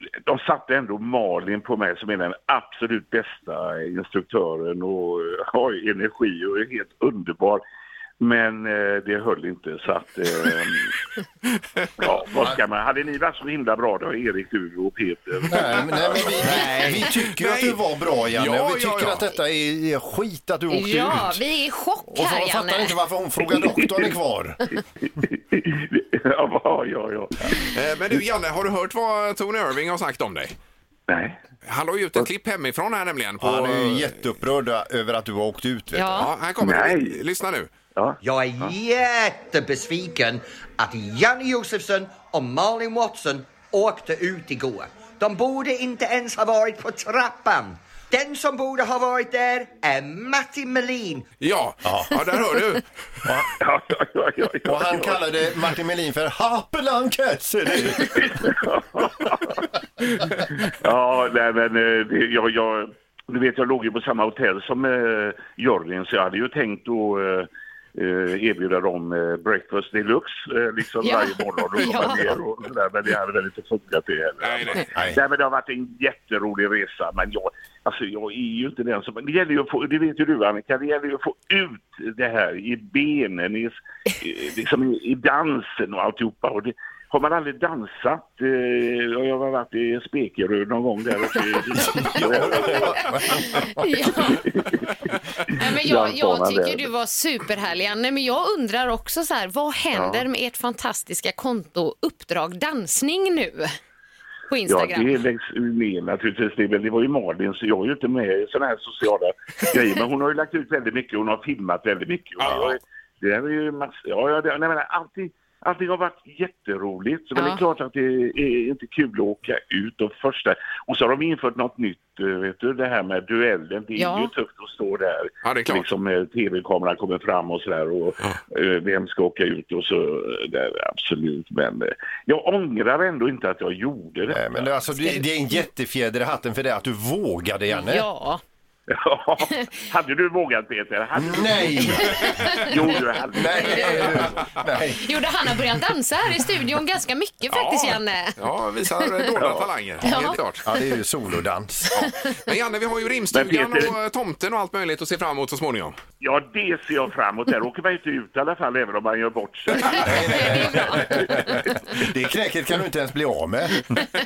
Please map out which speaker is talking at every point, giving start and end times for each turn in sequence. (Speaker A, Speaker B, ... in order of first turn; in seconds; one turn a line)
Speaker A: 0.2-7.6
Speaker A: 8.2-10.9
Speaker A: 12.0-16.9
Speaker B: 15.5-21.4
Speaker C: 16.3-17.8
Speaker D: 16.5-16.9
Speaker C: 18.3-19.3
Speaker D: 20.7-23.0
Speaker B: 22.1-24.6
Speaker A: 25.1-27.6
Speaker C: 27.7-30.6
Speaker A: 31.1-31.4
Speaker C: 31.6-34.1
Speaker B: 33.4-36.1
Speaker D: 35.9-36.3
Speaker C: 36.1-37.7
Speaker A: 36.6-37.1
Speaker E: 38.2-51.2
Speaker C: 51.4-52.8
Speaker B: 51.8-52.2
Speaker A: 53.6-55.2
Speaker B: 54.6-58.4
Speaker A: 58.2-59.6
Speaker A: 60.8-93.5
Speaker D: 71.0-72.2
Speaker C: 74.4-74.8
Speaker B: 91.9-93.9
Speaker D: 92.9-94.5
Speaker A: 94.3-94.9
Speaker D: 95.5-103.7
Speaker A: 95.6-96.9
Speaker A: 99.9-100.2
Speaker D: 104.5-105.1
Speaker A: 104.7-134.7
Speaker D: 117.3-117.6
Speaker D: 124.0-124.3
Speaker C: 125.4-125.9
Speaker B: 134.3-138.1
Speaker D: 134.9-135.2
Speaker D: 137.7-138.4
Speaker A: 138.9-144.4
Speaker B: 141.1-142.4
Speaker D: 141.8-142.8
Speaker B: 143.3-145.0
Speaker D: 145.0-148.4
Speaker C: 147.5-150.6
Speaker D: 149.0-149.3
Speaker A: 149.4-149.7
Speaker D: 150.0-150.4
Speaker B: 150.6-152.1
Speaker C: 152.4-156.0
Speaker A: 153.3-153.9
Speaker A: 156.2-160.4
Speaker D: 159.8-161.7
Speaker B: 159.9-163.8